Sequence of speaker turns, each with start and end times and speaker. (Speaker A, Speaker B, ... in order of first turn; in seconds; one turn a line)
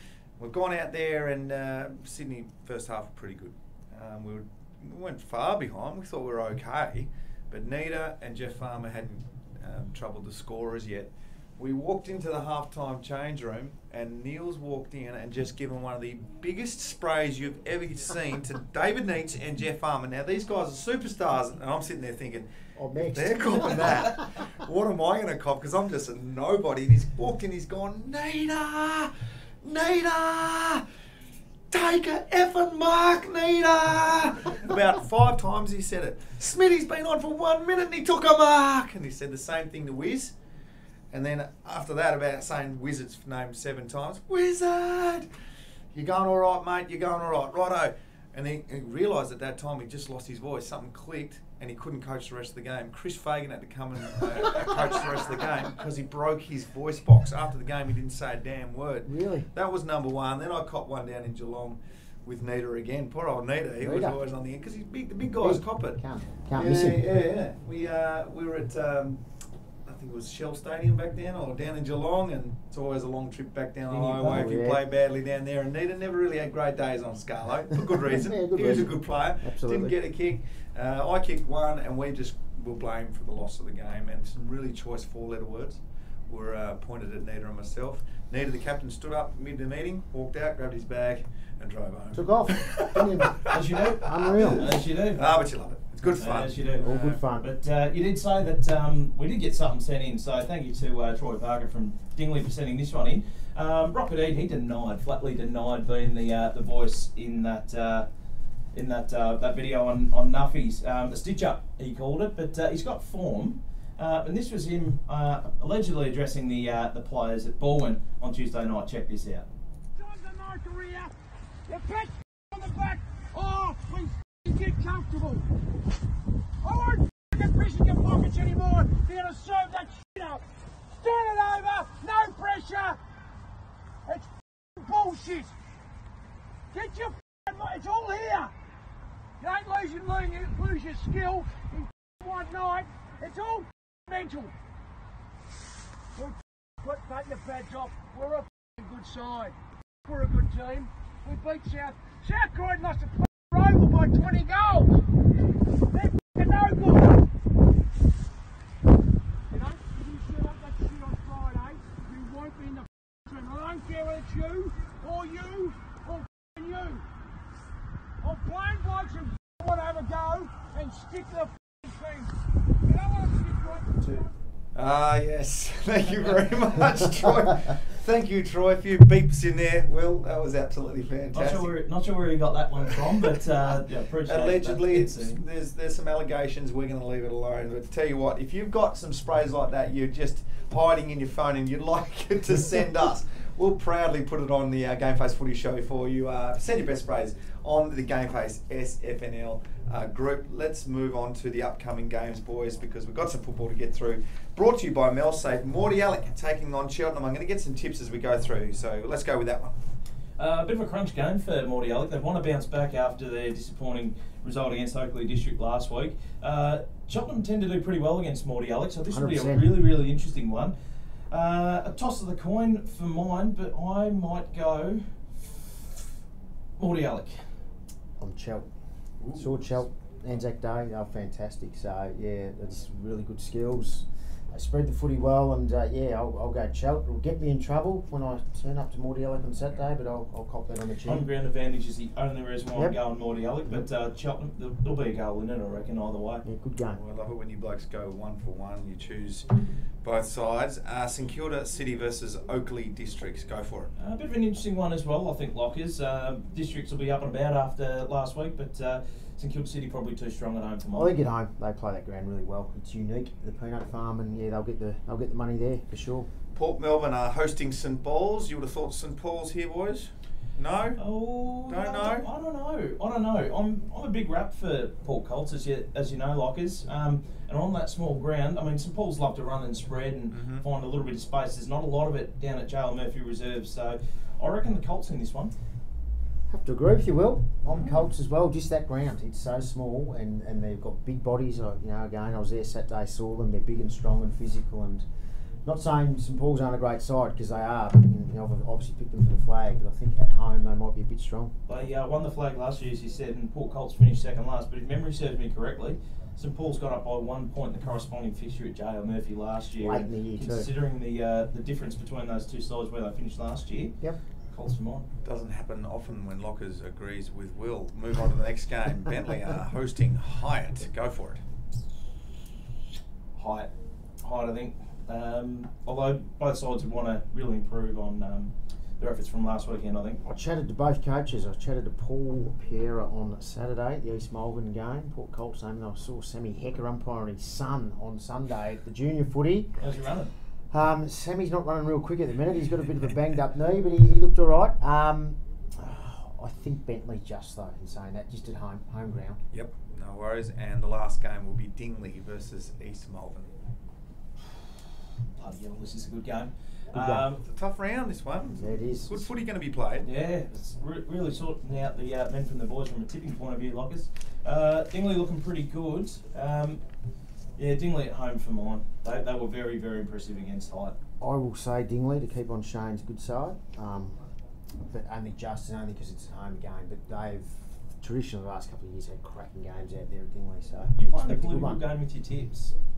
Speaker A: 0.4-22.5
Speaker B: 22.8-24.2
Speaker A: 23.1-29.1
Speaker A: 29.6-30.8
Speaker A: 31.7-40.3
Speaker A: 41.1-45.3
Speaker A: 45.9-66.0
Speaker B: 59.1-59.5
Speaker B: 63.8-64.2
Speaker B: 65.4-67.0
Speaker A: 66.5-69.2
Speaker A: 69.9-97.2
Speaker C: 73.9-74.5
Speaker B: 74.2-74.8
Speaker B: 77.8-80.0
Speaker B: 92.1-94.7
Speaker C: 93.5-95.3
Speaker C: 96.2-108.1
Speaker B: 96.8-97.5
Speaker C: 108.7-119.5
Speaker D: 120.0-121.2
Speaker D: 121.7-125.5
Speaker D: 126.6-133.0
Speaker D: 134.1-135.5
Speaker D: 136.7-138.5
Speaker D: 139.4-144.5
Speaker D: 146.2-155.0
Speaker D: 155.9-157.2
Speaker D: 159.5-167.1
Speaker D: 168.2-174.3
Speaker A: 174.8-181.7
Speaker C: 181.3-185.4
Speaker A: 184.3-209.7
Speaker C: 210.4-220.8
Speaker B: 219.1-219.7
Speaker C: 221.3-225.8
Speaker C: 226.8-227.5
Speaker B: 228.2-228.7
Speaker B: 229.3-241.2
Speaker C: 241.1-246.4
Speaker B: 246.4-247.0
Speaker A: 246.9-249.5
Speaker A: 250.0-253.9
Speaker C: 254.0-261.1
Speaker B: 260.9-266.3
Speaker A: 266.5-271.1
Speaker C: 271.0-285.6
Speaker A: 271.7-272.3
Speaker A: 280.3-280.6
Speaker B: 286.5-295.1
Speaker A: 287.7-288.0
Speaker B: 295.6-301.6
Speaker C: 301.7-314.0
Speaker B: 309.8-310.7
Speaker C: 314.5-315.1
Speaker A: 315.2-321.4
Speaker C: 323.4-330.2
Speaker B: 330.2-339.9
Speaker C: 339.8-340.3
Speaker B: 340.7-349.4
Speaker A: 349.5-353.5
Speaker C: 355.4-357.4
Speaker B: 356.9-357.3
Speaker A: 357.4-360.1
Speaker B: 358.6-359.3
Speaker C: 360.0-366.8
Speaker C: 367.6-371.0
Speaker B: 371.2-374.2
Speaker B: 374.8-381.9
Speaker C: 381.0-382.8